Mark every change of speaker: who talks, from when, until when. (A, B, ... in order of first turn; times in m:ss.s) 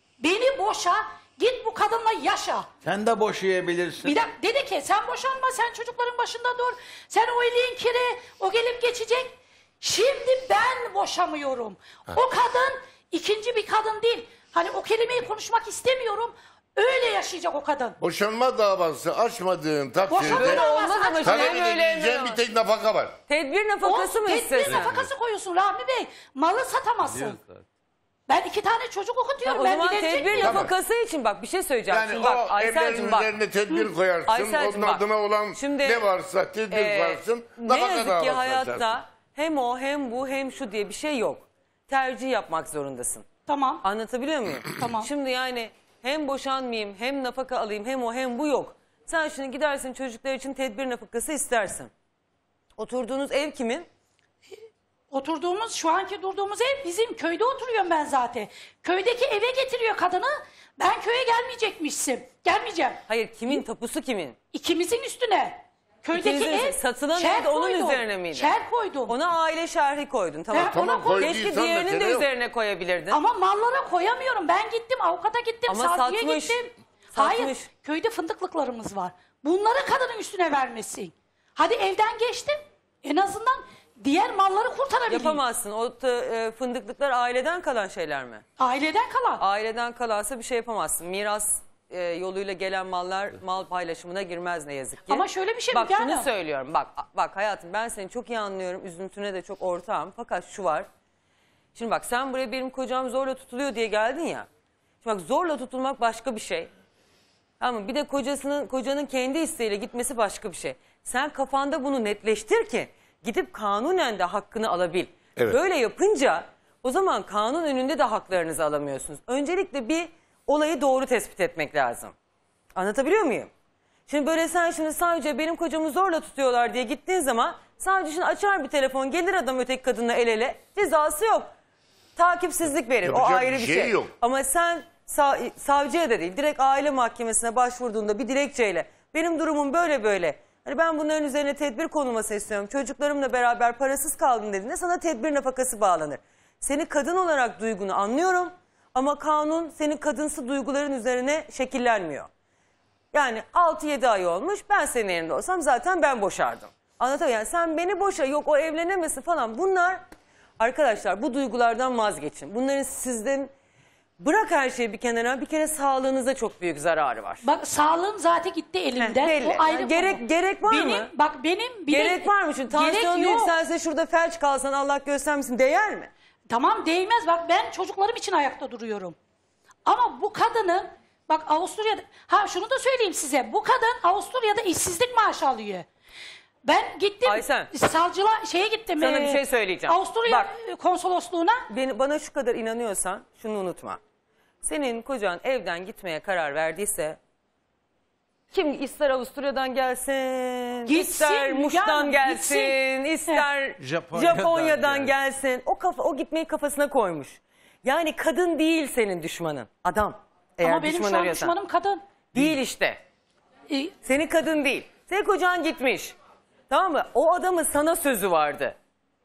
0:00.2-0:02.7 A
0:02.8-0:04.2 B
0:04.0-0:18.0 A
0:18.0-0:20.6 C
0:20.1-0:21.6 A
0:20.2-0:22.4 D
0:21.2-0:23.2 C
0:23.3-0:24.9 D
0:23.8-0:27.4 A
0:27.0-0:27.6 B
0:28.3-0:30.6 A
0:29.4-0:33.3 D
0:30.4-0:30.7 C
0:31.9-0:39.0 C
0:34.3-0:35.0 D
0:35.6-0:36.1 D
0:36.7-0:43.3 D
0:43.5-0:43.8 A
0:43.8-0:51.9 D
0:44.8-0:45.1 A
0:52.8-0:53.9 D
0:55.1-1:03.0 A
1:03.1-1:04.4 D
1:04.5-1:09.1 A
1:06.1-1:08.5 D
1:09.1-1:13.2 D
1:10.5-1:11.3 A
1:10.7-1:12.3 C
1:13.1-1:25.4 A
1:15.7-1:17.7 D
1:25.1-1:28.4 D
1:28.6-1:29.4 A
1:29.4-1:40.9 D
1:35.1-1:36.3 A
1:41.8-1:44.5 D
1:45.0-1:46.7 D
1:47.6-2:02.1 D
2:02.8-2:03.5 D
2:04.1-2:11.5 D
2:12.2-2:32.3 D
2:13.0-2:14.1 C
2:33.1-2:40.0 D
2:40.6-2:43.5 D
2:44.2-2:47.4 D
2:47.4-2:53.5 A
2:49.0-2:51.1 D
2:51.9-2:56.1 D
2:56.5-2:59.2 A
2:59.9-3:05.9 A
3:06.6-3:11.7 A
3:07.3-3:07.7 D
3:09.0-3:10.5 D
3:11.7-3:14.0 D
3:14.6-3:17.2 D
3:18.5-3:31.6 D
3:20.9-3:22.7 A
3:23.8-3:25.1 B
3:30.6-3:32.0 A
3:32.3-3:33.0 D
3:34.0-3:36.2 D
3:36.7-3:38.8 D